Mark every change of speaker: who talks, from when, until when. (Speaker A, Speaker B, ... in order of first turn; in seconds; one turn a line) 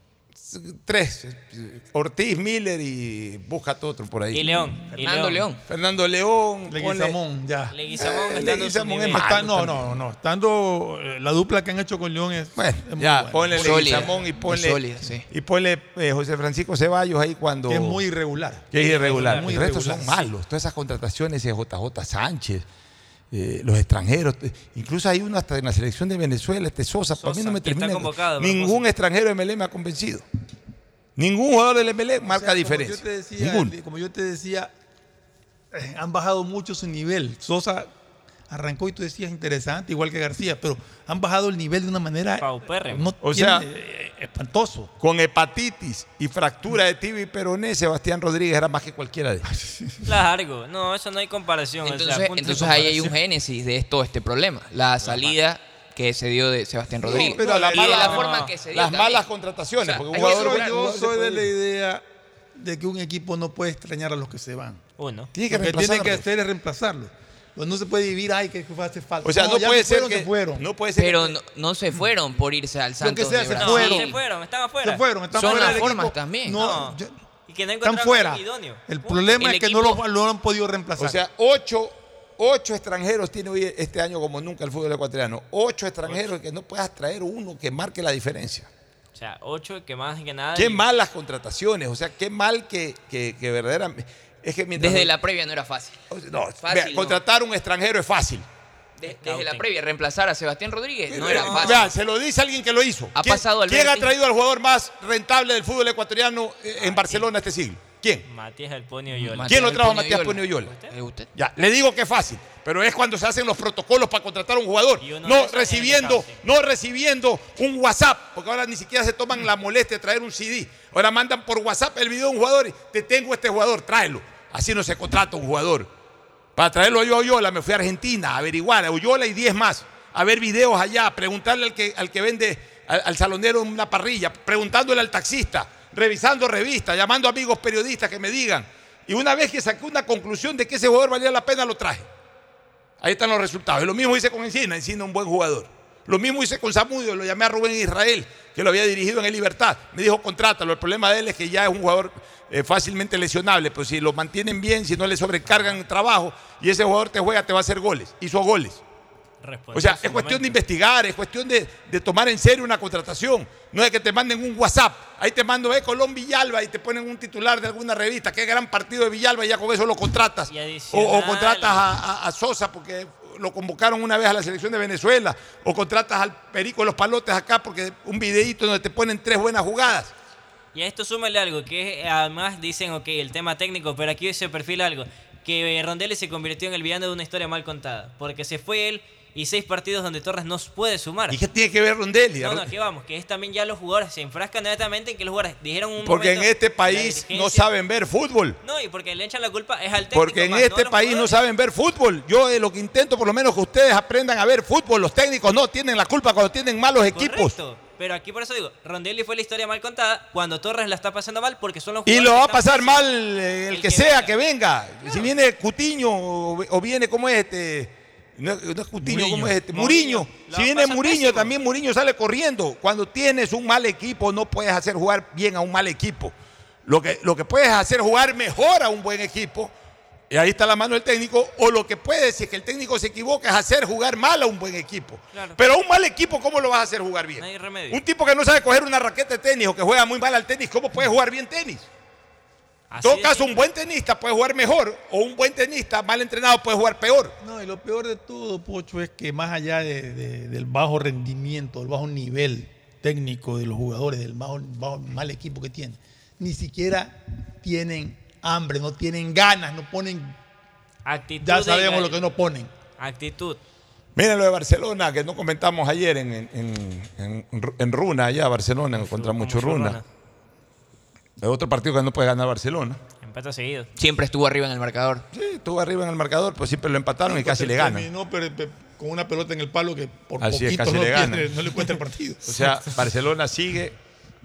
Speaker A: 0.4-4.8
Speaker B: 4.3-5.4
Speaker C: 4.9-5.6
Speaker A: 5.7-7.2
Speaker D: 6.7-8.5
Speaker B: 7.7-9.3
Speaker A: 7.9-10.0
Speaker D: 9.1-14.2
Speaker A: 12.6-18.0
Speaker C: 13.6-15.2
Speaker D: 17.7-20.2
Speaker A: 18.7-22.6
Speaker B: 18.8-19.4
Speaker A: 23.3-30.2
Speaker B: 27.1-28.9
Speaker A: 31.2-33.7
Speaker D: 32.2-34.7
Speaker D: 35.7-37.9
Speaker D: 38.5-44.9
Speaker B: 42.4-43.1
Speaker A: 43.2-43.6
Speaker A: 45.0-49.5
Speaker D: 49.5-50.0
Speaker B: 50.0-52.9
Speaker C: 51.8-59.2
Speaker D: 52.5-53.1
Speaker A: 55.0-55.3
Speaker A: 57.0-61.5
Speaker D: 57.0-57.5
Speaker B: 57.7-58.5
Speaker C: 60.0-60.6
Speaker D: 60.1-62.0
Speaker D: 62.5-64.8
Speaker B: 65.0-65.3
Speaker A: 65.3-66.2
Speaker D: 65.5-70.6
Speaker A: 69.2-71.4
Speaker C: 71.0-74.1
Speaker D: 73.0-74.2
Speaker B: 73.6-75.0
Speaker D: 74.8-77.1
Speaker C: 75.3-76.6
Speaker B: 76.6-77.0
Speaker B: 77.5-79.7
Speaker D: 77.8-81.2
Speaker A: 81.0-88.7
Speaker B: 89.1-90.8
Speaker A: 90.5-95.1
Speaker C: 94.8-95.9
Speaker A: 96.1-98.4
Speaker C: 96.6-97.2
Speaker C: 99.0-101.9
Speaker B: 99.2-99.7
Speaker A: 101.1-108.2
Speaker C: 103.2-104.1
Speaker B: 106.8-107.1
Speaker B: 108.2-109.5
Speaker C: 109.1-111.2
Speaker A: 109.5-110.7
Speaker B: 110.6-110.9
Speaker A: 111.3-125.9
Speaker B: 115.0-116.4
Speaker A: 126.5-142.1
Speaker A: 143.0-158.8
Speaker B: 155.5-155.8
Speaker B: 159.4-160.6
Speaker A: 159.7-180.1
Speaker B: 170.5-171.8
Speaker B: 180.7-191.4
Speaker A: 191.3-192.7
Speaker B: 192.4-197.7
Speaker A: 196.0-198.6
Speaker B: 198.6-201.4
Speaker A: 200.1-207.6
Speaker B: 207.0-213.0
Speaker A: 212.1-229.7
Speaker B: 213.7-214.3
Speaker D: 219.1-219.5
Speaker B: 219.7-221.5
Speaker A: 230.3-241.9
Speaker B: 235.3-235.6
Speaker B: 237.4-238.0
Speaker B: 242.9-243.6
Speaker A: 243.0-247.3
Speaker D: 247.4-260.4
Speaker B: 261.1-262.2
Speaker D: 261.4-262.7
Speaker B: 263.0-263.6
Speaker A: 264.1-270.0
Speaker B: 268.9-270.0
Speaker A: 271.4-273.0
Speaker B: 273.2-273.9
Speaker C: 274.0-275.2
Speaker A: 275.3-278.1
Speaker D: 277.2-282.7
Speaker A: 280.4-281.9
Speaker A: 282.4-284.0